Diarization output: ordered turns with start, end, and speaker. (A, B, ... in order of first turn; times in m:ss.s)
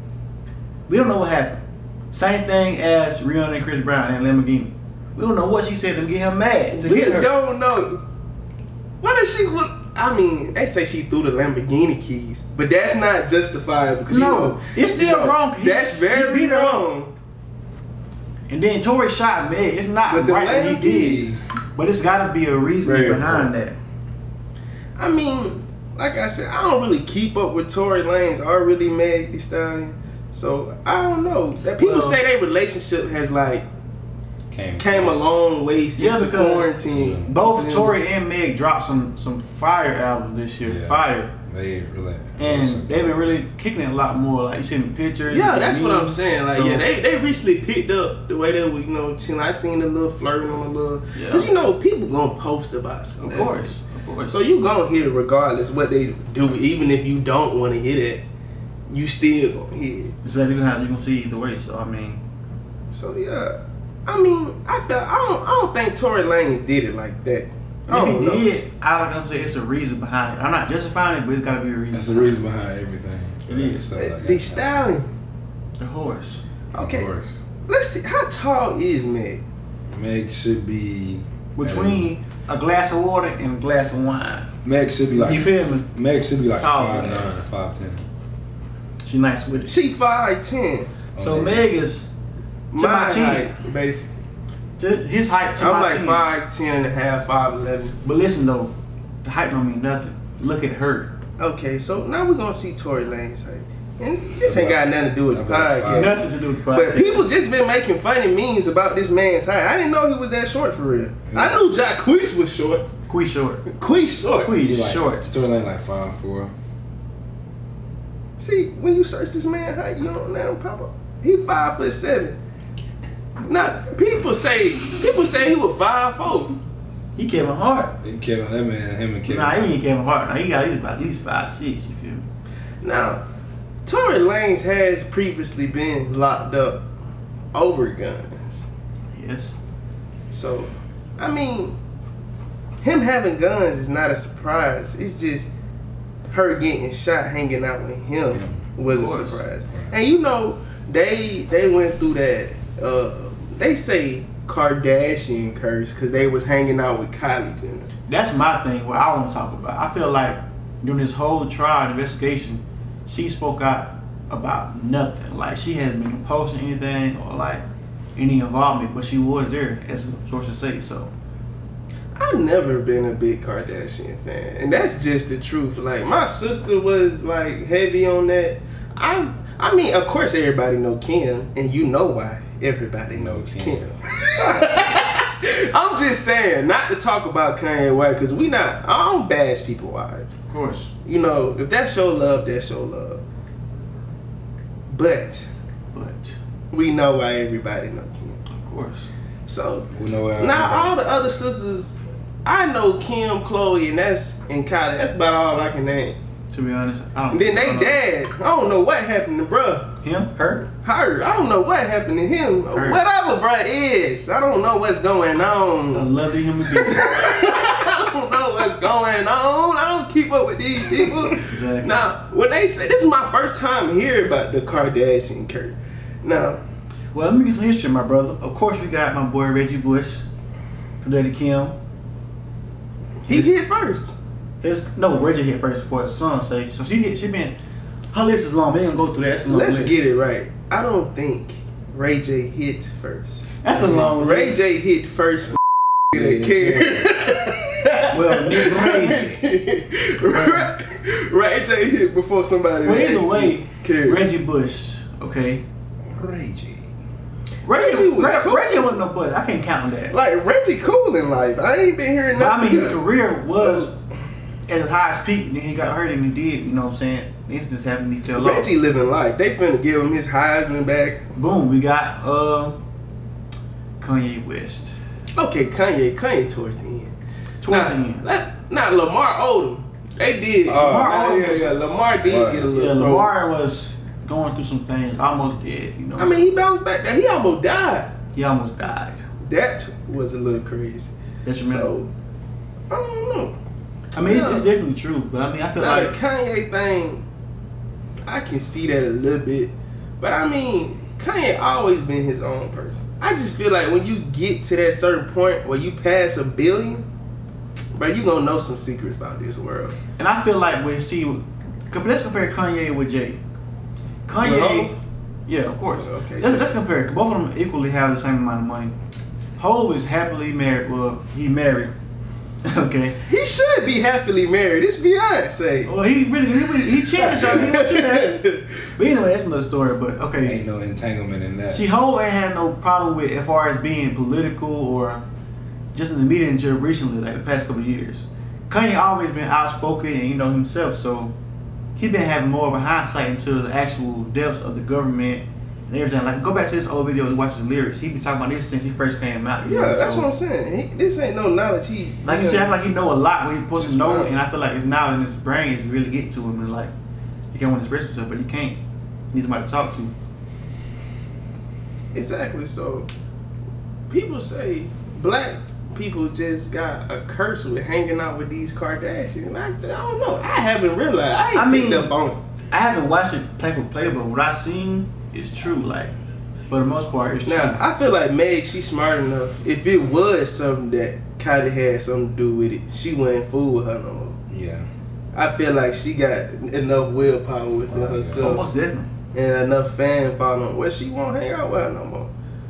0:00.9-0:07.3 A
0:06.8-0:08.0 B
0:09.0-0:17.1 B
0:14.1-0:16.8 A
0:18.5-0:23.8 A
0:20.1-0:21.4 B
0:22.8-0:23.5 C
0:25.0-0:33.7 B
0:31.8-0:32.2 A
0:34.5-0:35.3 C
0:34.8-0:38.0 B
0:36.0-0:41.3 A
0:36.8-0:37.4 C
0:40.6-0:43.4 C
0:42.4-0:46.8 A
0:45.3-0:53.7 B
0:51.2-0:51.5 A
0:53.2-0:54.4 A
0:54.3-0:58.2 B
0:58.9-1:00.1 B
1:00.2-1:02.2 A
1:02.9-1:03.6 B
1:04.1-1:08.5 B
1:07.9-1:12.4 A
1:11.9-1:14.7 C
1:13.5-1:13.8 A
1:14.0-1:15.1 B
1:15.8-1:16.4 A
1:16.7-1:17.1 B
1:16.7-1:17.3 C
1:17.7-1:19.4 B
1:19.9-1:22.1 C
1:21.6-1:24.5 A
1:24.6-1:28.0 C
1:25.1-1:25.9 A
1:26.6-1:27.4 A
1:29.0-1:29.8 A
1:29.7-1:30.9 B
1:31.2-1:31.7 C
1:31.2-1:32.1 A
1:32.7-1:34.1 B
1:32.8-1:33.5 A
1:34.8-1:36.3 A
1:35.6-1:38.0 B
1:38.0-1:38.7 A
1:39.2-1:41.1 A
1:41.4-1:52.9 B
1:44.4-1:46.2 C
1:45.9-1:47.3 A
1:51.3-1:51.6 C
1:53.1-1:53.6 A
1:53.7-1:54.5 B
1:54.4-1:55.3 A
1:54.6-1:56.5 C
1:58.4-2:02.4 B
2:03.4-2:06.6 B
2:07.2-2:08.0 A
2:08.0-2:09.7 C
2:09.3-2:12.2 A
2:12.8-2:13.2 B
2:13.9-2:16.8 B
2:17.5-2:18.6 B
2:19.1-2:19.6 A
2:20.3-2:21.8 B
2:22.8-2:25.5 B
2:26.3-2:37.9 B
2:28.3-2:28.7 C
2:28.9-2:29.4 A
2:38.1-2:47.6 A
2:48.2-2:51.1 A
2:52.2-3:10.3 B
3:03.1-3:03.8 C
3:10.5-3:10.9 A
3:11.0-3:13.2 B
3:14.9-3:15.5 B
3:15.9-3:16.4 A
3:16.7-3:18.4 B
3:18.5-3:19.1 A
3:19.5-3:19.9 B
3:19.9-3:21.0 C
3:20.4-3:26.2 B
3:26.5-3:28.0 A
3:27.3-3:29.9 B
3:30.0-3:30.7 A
3:30.8-3:36.1 B
3:32.7-3:33.0 A
3:35.9-3:37.5 A
3:36.7-3:46.6 B
3:41.4-3:42.0 A
3:47.1-3:50.3 A
3:51.0-3:51.8 A
3:53.2-3:54.2 B
3:53.3-3:53.5 A
3:54.6-3:57.6 A
3:58.1-4:00.1 A
3:59.5-4:14.2 B
4:03.6-4:04.7 A
4:06.1-4:07.1 C
4:08.1-4:09.4 A
4:10.3-4:10.7 A
4:12.8-4:15.6 A
4:16.1-4:16.9 C
4:17.6-4:20.2 A
4:17.7-4:19.0 B
4:20.1-4:23.0 B
4:22.4-4:24.0 A
4:23.6-4:23.9 B
4:24.7-4:28.7 A
4:28.3-4:31.2 B
4:31.4-4:32.8 A
4:34.0-4:35.0 A
4:35.4-4:37.2 B
4:37.6-4:38.3 A
4:37.7-4:43.3 B
4:40.7-4:41.2 C
4:40.7-4:41.8 A
4:42.1-4:42.7 C
4:42.7-4:46.5 A
4:46.2-4:48.1 B
4:48.4-4:49.2 A
4:49.4-4:51.1 B
4:51.4-4:51.9 A
4:51.7-4:52.1 B
4:52.9-4:53.6 B
4:54.2-4:54.7 B
4:54.2-4:56.1 A
4:55.8-4:57.2 B
4:58.3-5:07.0 B
5:08.0-5:10.0 B
5:10.2-5:13.4 A
5:14.3-5:14.9 A
5:14.4-5:15.0 B
5:15.5-5:19.0 A
5:16.0-5:16.7 B
5:19.6-5:21.9 A
5:22.6-5:23.2 A
5:23.3-5:25.9 B
5:25.9-5:30.6 A
5:26.8-5:28.6 B
5:30.4-5:31.8 C
5:31.7-5:35.2 A
5:35.9-5:41.3 A
5:42.0-5:50.3 A
5:49.7-5:52.7 B
5:52.2-5:56.9 A
5:53.8-5:54.3 B
5:57.5-5:58.8 A
5:59.3-6:00.1 A
6:02.1-6:03.1 B
6:04.1-6:12.4 B
6:11.5-6:12.2 A
6:12.7-6:16.1 A
6:16.7-6:17.8 A
6:17.5-6:24.4 B
6:24.5-6:24.9 C
6:25.3-6:28.6 B
6:27.9-6:28.6 C
6:28.4-6:29.1 A
6:29.3-6:32.3 B